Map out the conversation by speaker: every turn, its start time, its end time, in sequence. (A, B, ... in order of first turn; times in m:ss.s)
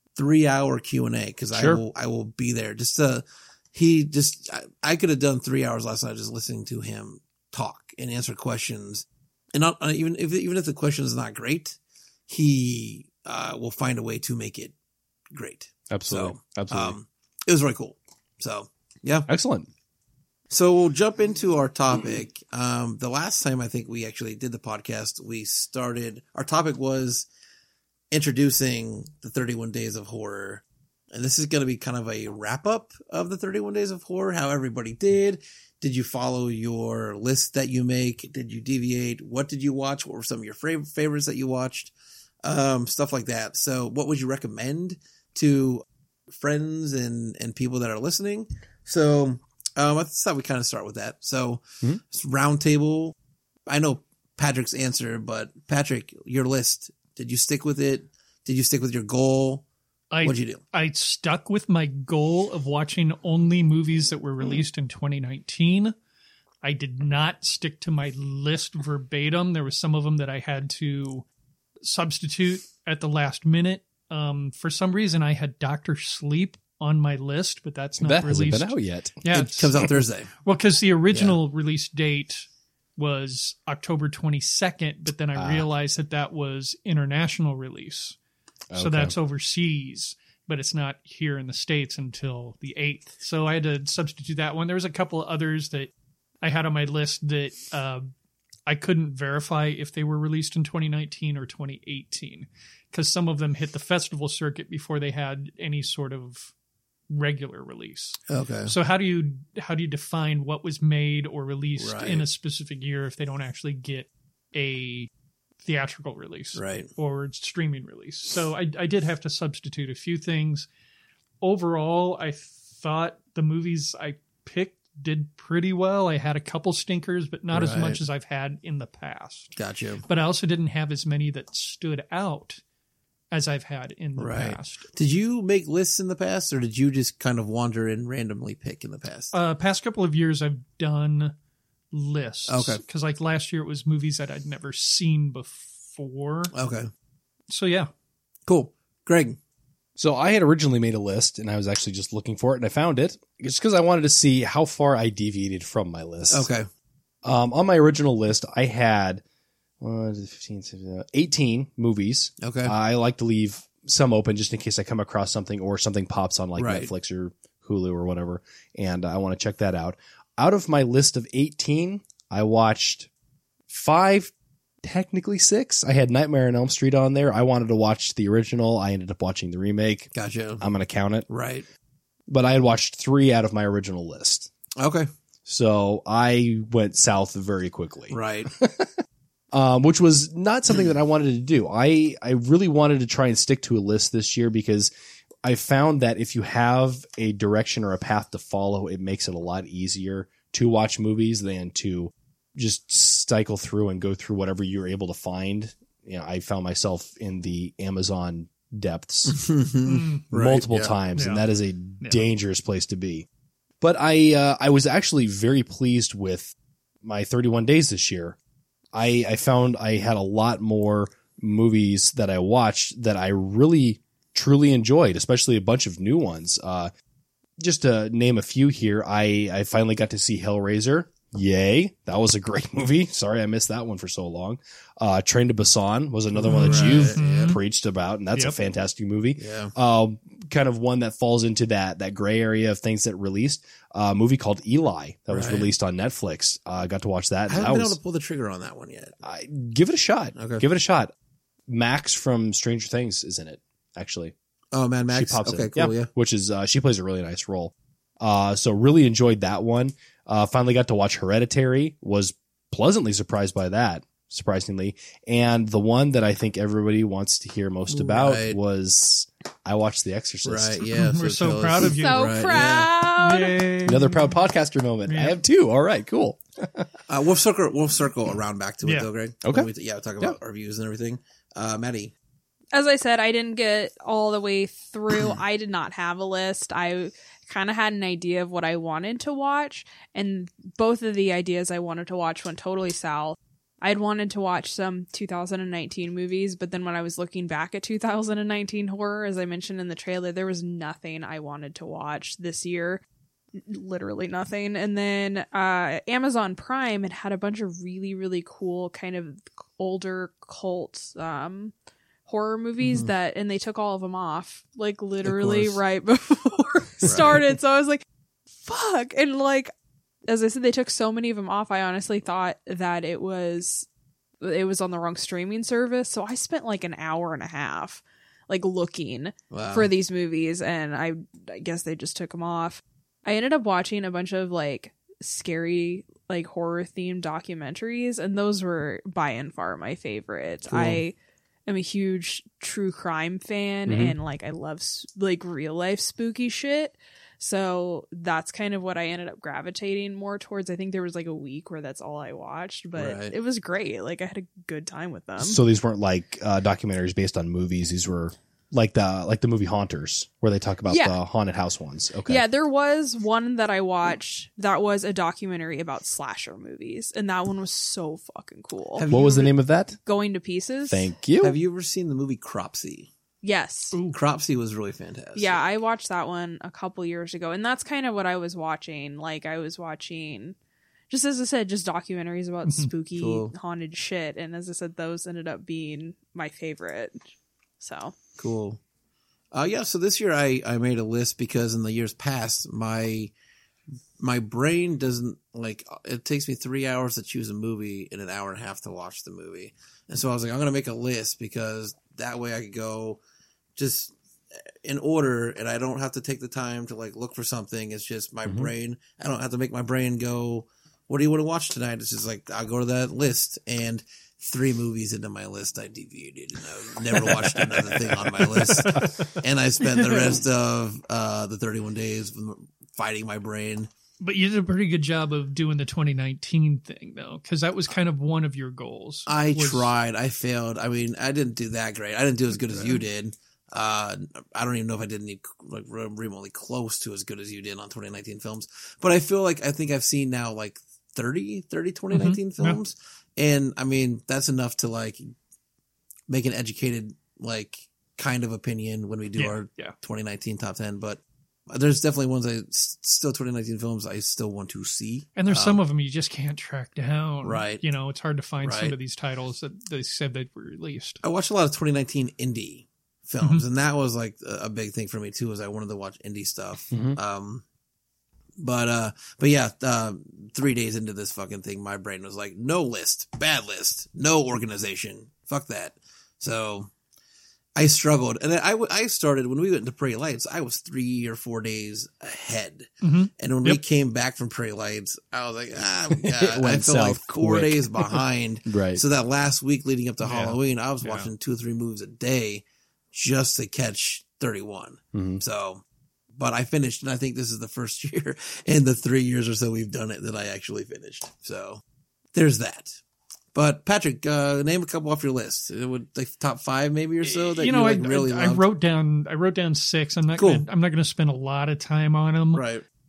0:00.2-0:14.7 A
0:01.5-0:01.8 B
0:15.3-0:19.3 A
0:15.9-0:17.0 B
0:19.3-0:19.7 B
0:20.5-0:27.3 A
0:28.1-0:41.9 A
0:42.4-0:53.1 A
0:53.7-0:59.6 A
1:00.1-1:05.9 C
1:00.2-1:00.6 A
1:06.6-1:11.2 C
1:11.8-1:28.2 C
1:18.0-1:19.2 B
1:19.3-1:20.3 A
1:21.1-1:21.4 A
1:25.4-1:25.7 B
1:28.7-1:29.1 B
1:28.7-1:35.9 C
1:36.4-1:38.0 C
1:38.7-1:46.5 C
1:47.1-1:55.1 C
1:48.3-1:48.7 A
1:51.8-1:52.2 A
1:55.6-2:00.7 C
1:56.5-1:56.9 A
2:01.4-2:12.6 C
2:07.5-2:08.0 A
2:09.6-2:10.0 A
2:13.3-2:14.8 C
2:14.2-2:19.3 A
2:19.3-2:21.3 C
2:21.9-2:26.5 C
2:22.5-2:22.8 A
2:26.5-2:26.9 A
2:27.5-2:27.9 C
2:28.5-2:29.4 A
2:30.0-2:36.5 B
2:36.3-2:36.7 A
2:37.2-2:39.2 B
2:39.8-2:53.1 B
2:42.4-2:42.7 A
2:46.6-2:46.9 A
2:53.7-2:54.3 B
2:54.8-3:01.3 B
3:00.1-3:00.6 A
3:01.3-3:01.6 A
3:02.3-3:04.5 B
3:04.8-3:05.1 A
3:05.4-3:08.9 B
3:08.1-3:08.5 A
3:09.5-3:14.9 B
3:15.4-3:29.4 B
3:29.3-3:30.9 A
3:29.8-3:30.2 C
3:30.3-3:33.2 B
3:31.1-3:31.4 C
3:33.8-3:38.4 B
3:38.9-3:46.9 B
3:47.6-4:08.0 B
3:56.4-3:57.6 C
3:56.4-3:57.5 A
3:59.4-3:59.7 A
4:05.3-4:05.7 A
4:07.5-4:09.2 A
4:09.2-4:11.1 B
4:10.4-4:10.6 A
4:11.7-4:14.3 B
4:14.7-4:16.1 A
4:15.1-4:30.8 B
4:27.9-4:28.6 A
4:30.4-4:32.9 A
4:30.8-4:34.3 C
4:31.9-4:33.8 D
4:33.8-4:36.9 B
4:35.0-4:35.4 C
4:37.1-4:42.1 A
4:38.8-4:39.1 C
4:39.4-4:39.7 B
4:42.7-5:03.0 D
5:03.6-5:11.7 D
5:12.2-5:18.0 D
5:12.8-5:13.1 A
5:15.2-5:15.8 A
5:17.0-5:17.4 A
5:18.6-5:19.7 D
5:20.3-5:23.8 D
5:24.4-5:41.2 D
5:29.5-5:29.9 A
5:40.7-5:41.0 B
5:41.7-5:55.6 D
5:43.9-5:44.1 B
5:52.9-5:53.3 A
5:55.4-6:02.4 B
6:00.9-6:01.2 D
6:02.3-6:11.1 D
6:09.0-6:09.5 A
6:09.1-6:10.0 B
6:10.9-6:11.6 B
6:11.4-6:13.1 A
6:13.4-6:14.0 D
6:13.9-6:14.2 C
6:14.1-6:15.6 A
6:15.3-6:20.6 D
6:21.1-6:27.2 D
6:22.6-6:22.9 C
6:23.2-6:23.5 A
6:27.8-6:28.1 D
6:28.4-6:28.8 A
6:29.5-6:33.3 A
6:34.2-6:43.2 A
6:43.8-6:44.1 A
6:44.8-7:03.9 A
6:58.3-6:59.2 C
6:59.8-7:00.4 C
7:04.2-7:09.9 C
7:09.3-7:25.3 A
7:12.7-7:13.0 C
7:22.1-7:22.8 C
7:26.3-7:35.8 A
7:29.4-7:29.9 C
7:35.4-7:41.2 C
7:37.4-7:37.8 A
7:38.6-7:39.0 A
7:41.2-7:47.6 A
7:46.9-7:47.2 B
7:48.6-7:56.9 A
7:57.8-8:15.8 A
8:03.0-8:03.8 C
8:06.2-8:09.0 B
8:10.2-8:11.3 C
8:15.1-8:15.4 B
8:16.4-8:21.8 A
8:22.3-8:23.0 A
8:23.5-8:28.6 A
8:27.2-8:32.6 C
8:30.4-8:30.6 A
8:32.5-8:32.8 A